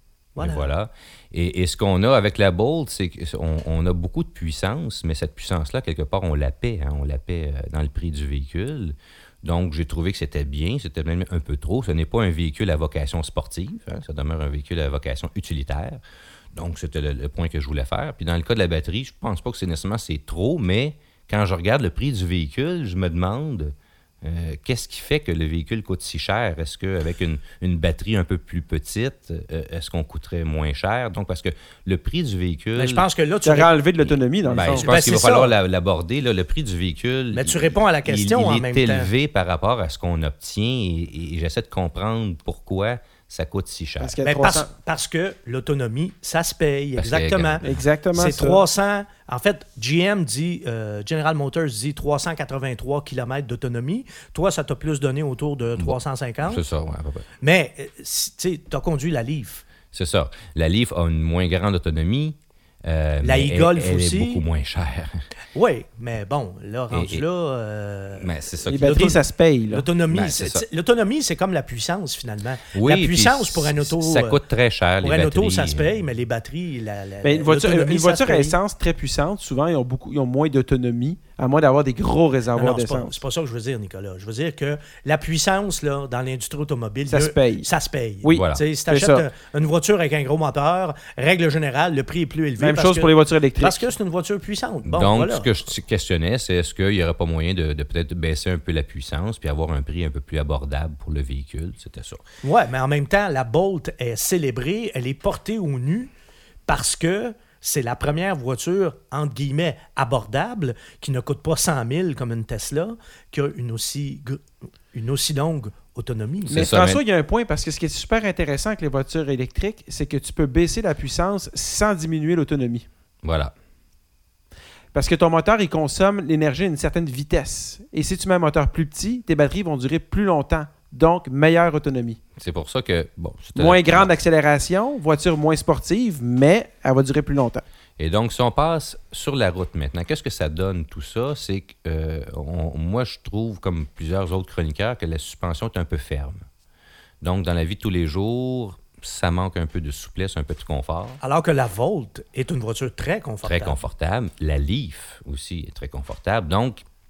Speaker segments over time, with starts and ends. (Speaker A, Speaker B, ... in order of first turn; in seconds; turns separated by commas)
Speaker A: 0.4-0.7, Speaker B: 0.4-16.0, Speaker B: 16.5-33.0, Speaker A: 32.8-33.7, Speaker C: 33.5-34.9, Speaker B: 34.0-44.2, Speaker A: 34.7-35.5, Speaker A: 37.3-39.1, Speaker C: 44.0-44.7, Speaker A: 44.2-47.6, Speaker B: 47.0-47.6, Speaker C: 47.6-48.6, Speaker A: 48.1-56.6, Speaker B: 55.8-57.2, Speaker A: 57.4-59.7, Speaker B: 59.9-65.2, Speaker A: 63.2-64.4, Speaker A: 65.5-74.4, Speaker B: 66.9-67.2, Speaker B: 68.2-69.1, Speaker C: 68.7-69.8, Speaker B: 70.1-70.6, Speaker B: 72.7-75.9, Speaker A: 75.0-78.6, Speaker C: 77.2-83.2, Speaker A: 82.5-95.6, Speaker C: 87.1-87.7, Speaker C: 88.2-89.3, Speaker B: 88.3-88.6, Speaker C: 92.6-93.9, Speaker B: 94.9-102.2, Speaker A: 102.4-106.1, Speaker A: 106.7-116.6, Speaker B: 116.5-117.0, Speaker C: 116.5-122.9, Speaker B: 123.2-123.5, Speaker C: 124.9-132.2, Speaker B: 132.4-134.1, Speaker C: 133.6-137.6, Speaker B: 138.0-146.4, Speaker B: 147.2-151.2, Speaker A: 151.2-153.8, Speaker B: 153.4-156.8